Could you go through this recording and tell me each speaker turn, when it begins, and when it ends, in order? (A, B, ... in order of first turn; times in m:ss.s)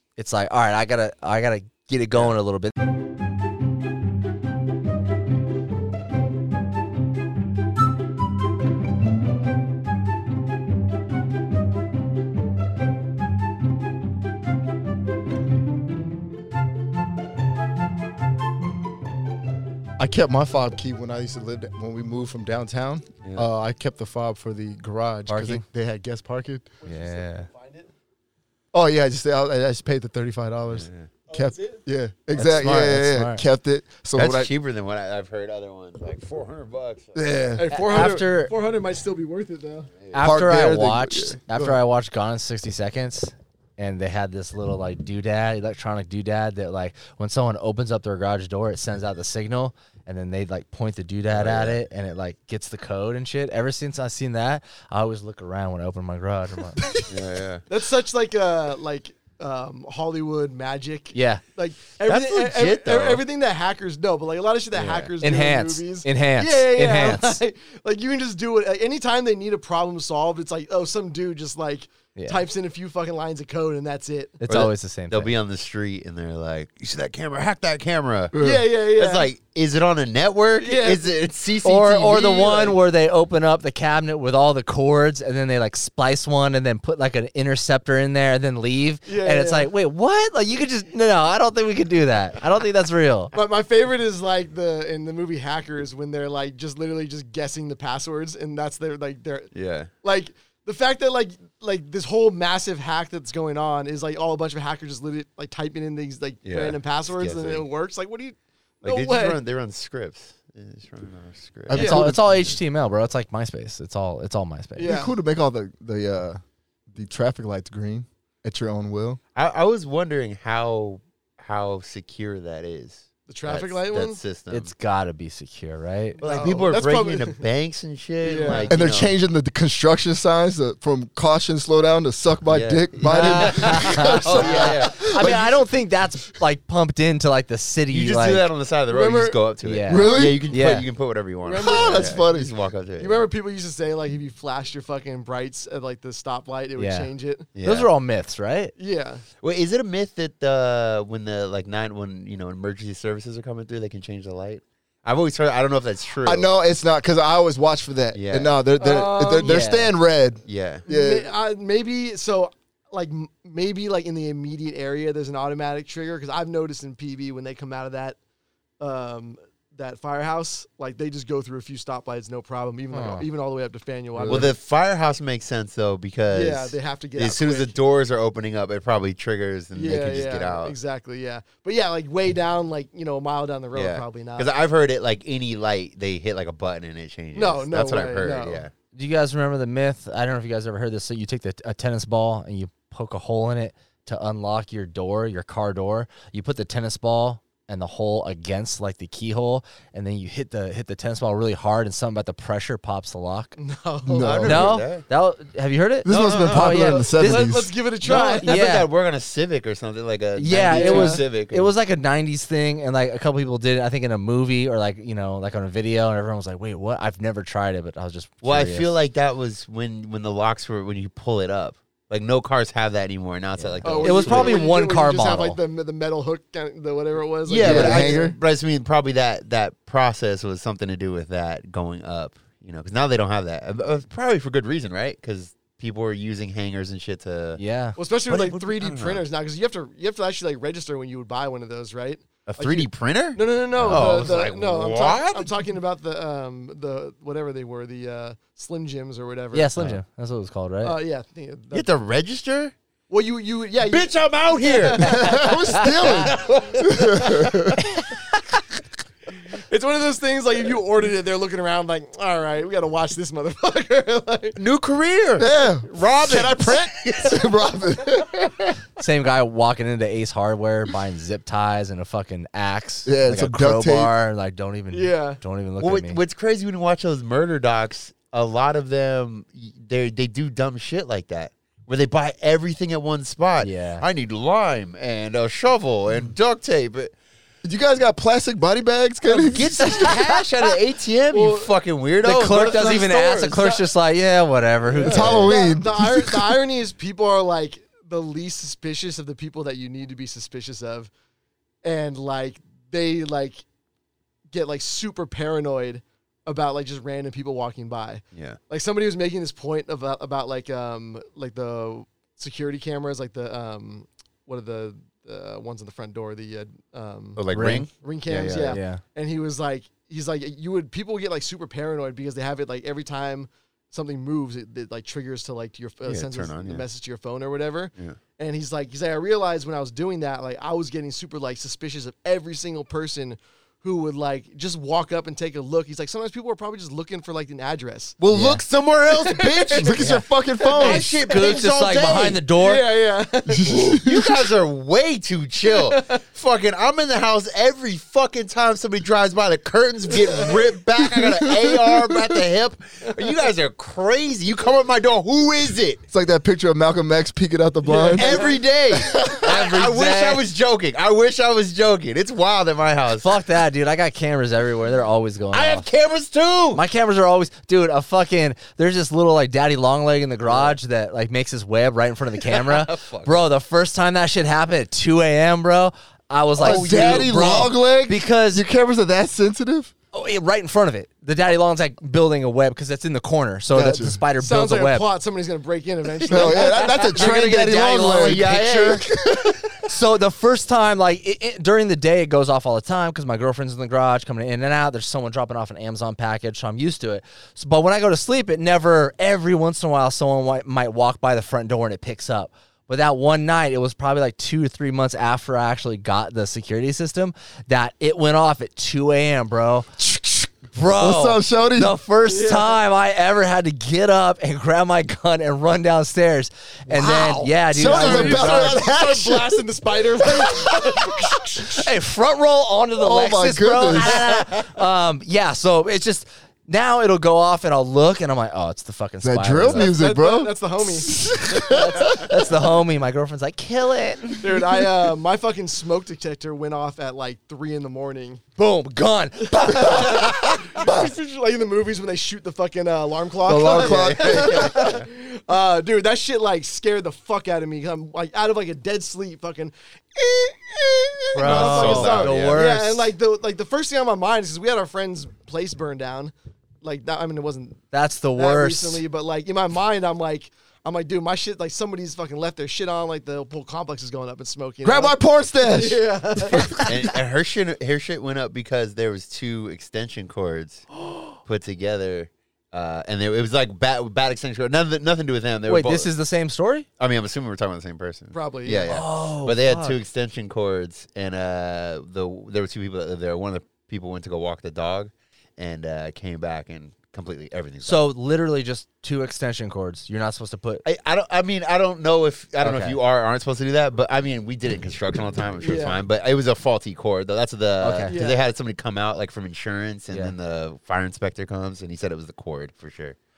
0:00.2-0:02.7 A
0:20.0-0:26.7 B
0:25.3-0:25.6 A
0:26.8-0:27.9 C
0:26.8-0:27.5 A
0:28.7-0:34.5 B
0:30.7-0:31.1 D
0:31.3-0:31.8 C
0:32.3-0:33.4 A
0:34.2-0:37.2 D
0:37.1-0:37.6 B
0:37.6-0:39.9 C
0:37.7-0:38.5 A
0:40.0-0:40.3 D
0:40.1-0:56.9 A
0:40.2-0:41.8 B
0:51.3-0:51.8 D
0:56.8-0:57.1 B
0:57.1-0:57.6 D
0:57.7-1:14.4 C
1:01.1-1:01.4 A
1:02.1-1:03.2 D
1:04.7-1:07.4 A
1:12.1-1:12.4 A
1:14.4-1:15.3 A
1:14.5-1:22.8 D
1:18.3-1:18.6 B
1:18.4-1:19.3 C
1:20.6-1:21.0 C
1:21.6-1:33.3 A
1:29.0-1:29.7 C
1:33.3-1:39.5 C
1:39.5-1:39.9 D
1:40.0-1:49.4 C
1:46.4-1:47.6 D
1:48.8-1:52.1 D
1:51.7-1:52.5 B
1:51.7-1:54.9 A
1:54.8-1:55.1 C
1:54.8-1:56.4 B
1:56.9-1:59.2 B
1:59.3-2:04.7 D
2:03.3-2:04.2 C
2:04.5-2:06.2 A
2:06.2-2:07.4 C
2:06.2-2:09.1 D
2:08.2-2:08.7 C
2:08.7-2:15.6 B
2:12.5-2:15.4 D
2:13.0-2:18.4 A
2:14.4-2:14.7 C
2:17.9-2:23.2 D
2:18.9-2:19.4 C
2:19.6-2:20.8 A
2:19.9-2:20.5 B
2:21.4-2:22.2 C
2:21.6-2:22.5 B
2:23.0-2:27.5 C
2:26.8-2:27.1 A
2:27.5-2:27.9 D
2:27.6-2:28.7 A
2:28.8-2:29.2 C
2:29.4-2:36.5 D
2:36.2-2:41.3 B
2:38.1-2:38.5 D
2:38.8-2:39.6 C
2:39.4-2:39.9 A
2:40.4-2:40.8 D
2:40.9-2:48.2 C
2:48.8-2:54.5 C
2:52.9-2:53.2 A
2:54.1-2:54.5 B
2:54.3-3:00.8 D
2:56.3-2:57.8 C
2:59.7-3:04.5 C
3:03.7-3:08.7 D
3:07.3-3:08.6 C
3:08.9-3:23.6 A
3:23.6-3:24.7 C
3:24.0-3:24.6 B
3:24.2-3:25.0 D
3:24.4-3:27.5 A
3:26.0-3:27.7 B
3:26.1-3:28.6 C
3:28.0-3:31.7 D
3:28.1-3:28.9 A
3:30.4-3:38.9 A
3:30.7-3:31.2 C
3:38.4-3:44.6 D
3:43.6-3:45.6 A
3:43.8-3:48.3 C
3:47.4-3:57.6 D
3:47.6-3:48.4 B
3:57.6-3:58.0 A
3:58.0-4:09.7 C
3:58.3-3:59.2 D
4:02.4-4:05.5 D
4:03.8-4:04.2 A
4:09.5-4:11.0 A
4:10.8-4:11.8 C
4:11.7-4:12.7 D
4:13.1-4:17.4 C
4:13.8-4:15.3 D
4:15.0-4:17.8 B
4:15.5-4:16.0 A
4:16.0-4:17.5 D
4:19.7-4:24.6 C
4:24.6-4:27.5 D
4:25.4-4:25.9 B
4:26.2-4:27.0 C
4:27.2-4:28.8 B
4:29.0-4:36.2 A
4:33.0-4:34.1 B
4:34.9-4:35.4 C
4:35.8-4:47.1 D
4:43.6-4:44.0 A
4:47.6-4:50.2 B
4:49.3-4:53.7 D
4:51.3-4:51.7 C
4:52.2-4:55.6 A
4:54.9-4:55.4 D
4:55.0-5:01.1 C
4:55.0-4:56.5 B
5:01.8-5:03.6 C
5:04.5-5:17.4 C
5:17.4-5:18.6 D
5:17.5-5:19.0 A
5:18.0-5:38.2 C
5:26.0-5:26.8 D
5:38.2-5:42.4 D
5:38.3-5:38.6 A
5:39.0-5:40.0 C
5:39.8-5:41.2 B
5:40.6-5:41.1 C
5:41.0-5:42.8 A
5:42.6-5:43.8 C
5:43.5-5:44.3 B
5:43.7-5:56.0 D
5:45.7-5:46.2 C
5:50.2-5:50.6 C
5:51.0-5:52.4 B
5:56.1-5:58.5 B
5:57.8-5:58.6 C
5:58.1-6:03.3 D
5:59.4-6:00.4 A
6:03.2-6:05.8 A
6:05.5-6:06.8 D
6:06.7-6:18.6 A
6:10.4-6:10.8 D
6:12.4-6:13.4 D
6:16.6-6:17.6 D
6:16.6-6:19.9 B
6:20.1-6:25.0 A
6:23.7-6:24.2 B
6:24.4-6:27.1 C
6:26.3-6:29.7 B
6:26.9-6:29.1 A
6:27.0-6:29.2 D
6:29.8-6:49.9 A
6:50.0-6:52.0 B
6:50.7-6:58.8 A
6:52.3-6:52.8 C
6:56.9-7:01.9 C
6:57.7-6:59.6 B
7:01.8-7:09.9 A
7:03.0-7:04.3 B
7:09.2-7:12.3 B
7:09.7-7:12.1 C
7:11.7-7:14.4 A
7:14.4-7:18.4 C
7:18.6-7:20.3 A
7:19.6-7:37.8 C
7:20.8-7:21.1 B
7:23.4-7:25.0 B
7:23.7-7:25.0 D
7:31.3-7:33.1 A
7:31.4-7:32.6 D
7:37.9-7:39.0 A
7:38.4-7:46.8 C
7:44.8-7:46.9 B
7:46.8-7:50.8 D
7:51.4-7:56.1 D
7:55.7-7:56.8 A
7:57.0-8:08.0 D
7:58.3-7:59.0 C
7:58.9-8:00.0 A
8:07.8-8:10.8 A
8:10.8-8:23.2 D
8:12.6-8:13.0 A
8:15.6-8:16.0 C
8:17.8-8:18.2 A
8:18.1-8:18.4 C